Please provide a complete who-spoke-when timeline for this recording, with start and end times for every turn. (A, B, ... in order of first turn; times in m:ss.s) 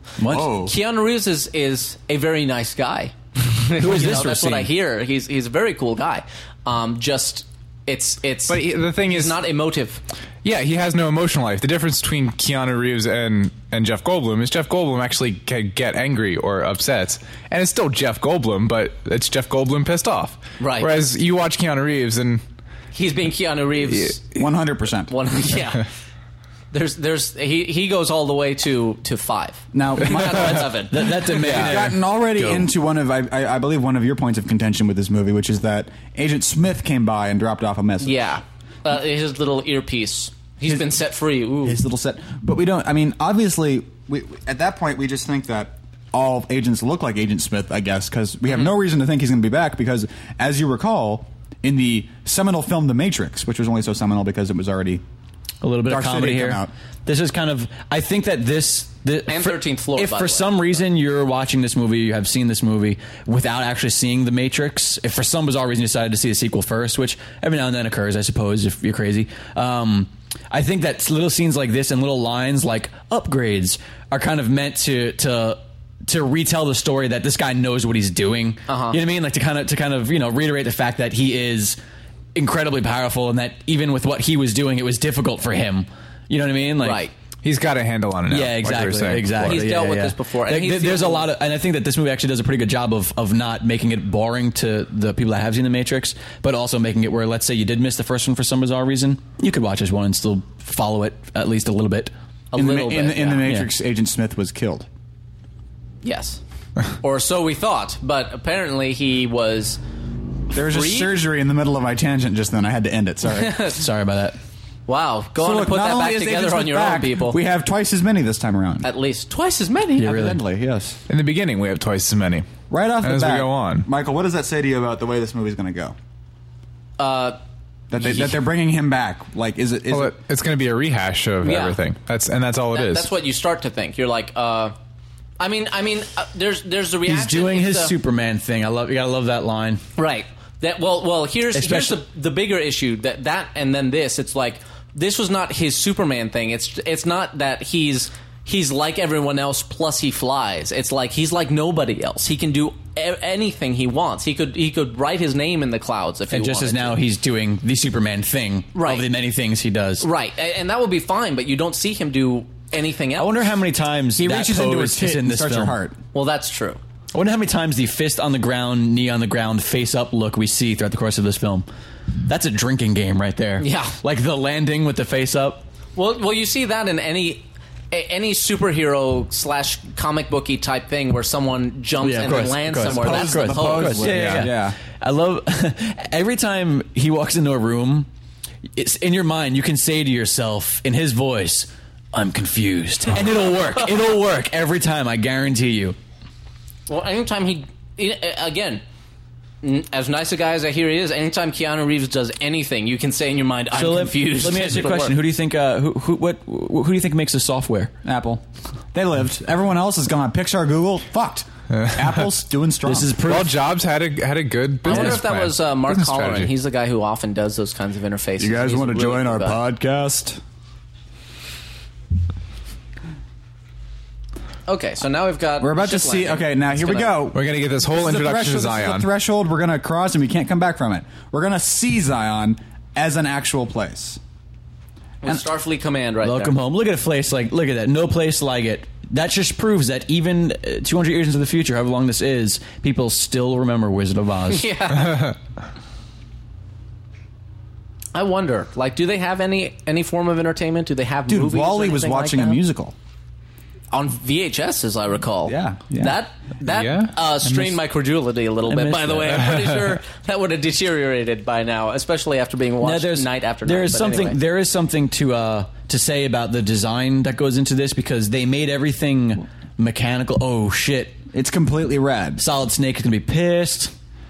0:00.2-0:00.5 A
0:00.3-0:00.7 B
0:00.4-0:10.0 C
0:03.8-0:04.7 A
0:08.5-0:09.4 D
0:10.4-0:22.4 D
0:20.6-0:21.0 C
0:22.9-0:24.3 C
0:24.3-0:25.1 B
0:25.1-0:25.9 C
0:26.7-0:31.7 C
0:29.7-0:30.8 B
0:30.6-0:32.7 A
0:31.3-0:38.1 B
0:38.0-0:41.8 C
0:41.6-0:55.0 B
0:55.6-1:21.8 A
0:55.8-0:56.7 B
0:59.3-1:00.8 C
1:18.7-1:19.0 C
1:22.3-1:27.0 A
1:26.8-1:27.1 C
1:27.4-1:29.6 D
1:28.3-1:42.1 A
1:29.4-1:31.3 C
1:42.5-1:43.5 C
1:42.5-1:44.8 B
1:46.0-1:46.4 C
1:47.0-1:49.8 C
1:50.5-1:53.6 B
1:50.5-1:51.2 C
1:53.3-1:53.8 C
1:53.7-1:54.4 A
1:54.9-1:57.4 C
1:55.4-1:58.9 B
1:58.8-2:00.2 C
2:00.0-2:00.4 A
2:00.0-2:01.0 B
2:01.1-2:02.5 D
2:02.7-2:05.9 B
2:03.0-2:03.9 D
2:07.0-2:07.4 C
2:07.9-2:10.1 B
2:08.0-2:08.4 C
2:09.9-2:13.1 D
2:11.4-2:11.8 C
2:12.7-2:14.7 C
2:15.4-2:17.9 C
2:17.0-2:19.8 A
2:20.0-2:37.0 C
2:21.5-2:22.0 A
2:36.3-2:40.1 A
2:38.7-2:39.1 C
2:40.0-2:43.5 C
2:43.2-2:45.8 A
2:44.2-2:46.0 B
2:46.1-2:46.8 C
2:47.1-2:51.6 A
2:52.2-2:55.6 A
2:53.6-2:53.9 C
2:56.0-3:04.2 C
3:02.0-3:08.1 A
3:02.8-3:04.8 B
3:04.0-3:04.5 D
3:08.8-3:16.0 A
3:16.9-3:18.8 C
3:19.6-3:25.2 C
3:23.7-3:27.9 A
3:28.0-3:33.1 B
3:31.7-3:32.2 D
3:32.8-3:33.6 A
3:33.2-3:36.5 D
3:34.8-3:39.6 C
3:38.4-3:40.4 B
3:44.7-3:47.3 C
3:45.6-3:54.2 B
3:47.3-3:49.1 D
3:55.2-3:56.6 C
3:56.2-4:04.7 A
4:04.5-4:05.3 C
4:08.1-4:12.6 C
4:11.3-4:12.9 B
4:13.9-4:24.4 C
4:15.4-4:16.2 B
4:16.7-4:17.7 D
4:18.7-4:19.6 A
4:22.8-4:31.2 A
4:31.3-4:32.4 B
4:32.4-4:33.9 A